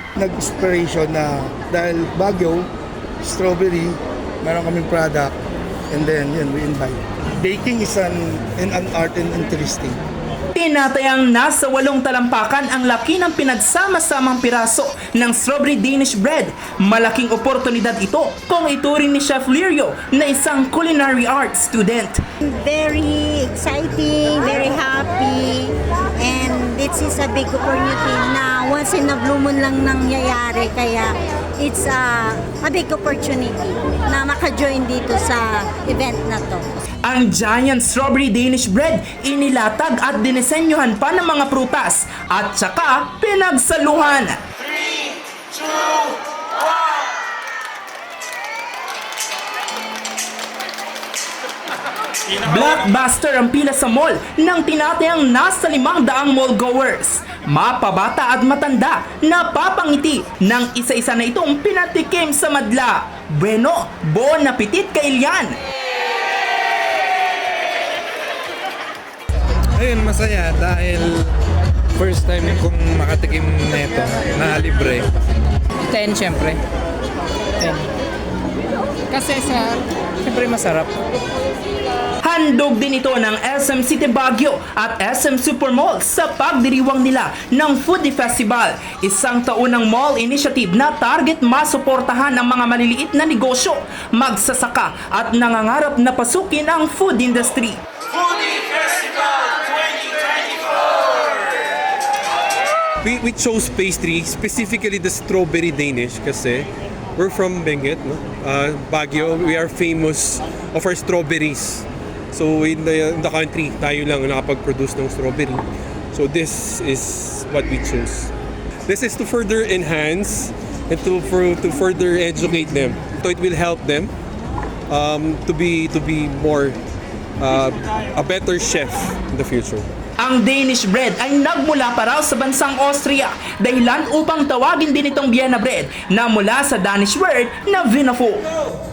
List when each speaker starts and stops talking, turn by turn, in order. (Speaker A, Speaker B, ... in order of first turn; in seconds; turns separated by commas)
Speaker A: 0.2-2.7, Speaker A: 3.2-5.3, Speaker A: 5.9-10.0, Speaker B: 10.6-22.2, Speaker C: 22.4-36.7, Speaker B: 37.0-44.4, Speaker B: 52.4-65.5, Speaker D: 69.8-71.3, Speaker D: 71.9-75.1, Speaker E: 75.8-76.6, Speaker E: 77.6-77.9, Speaker E: 79.1-81.0, Speaker B: 82.2-97.8, Speaker F: 103.0-118.3, Speaker F: 118.9-124.1, Speaker F: 124.9-126.8, Speaker F: 127.4-129.9, Speaker B: 130.2-138.5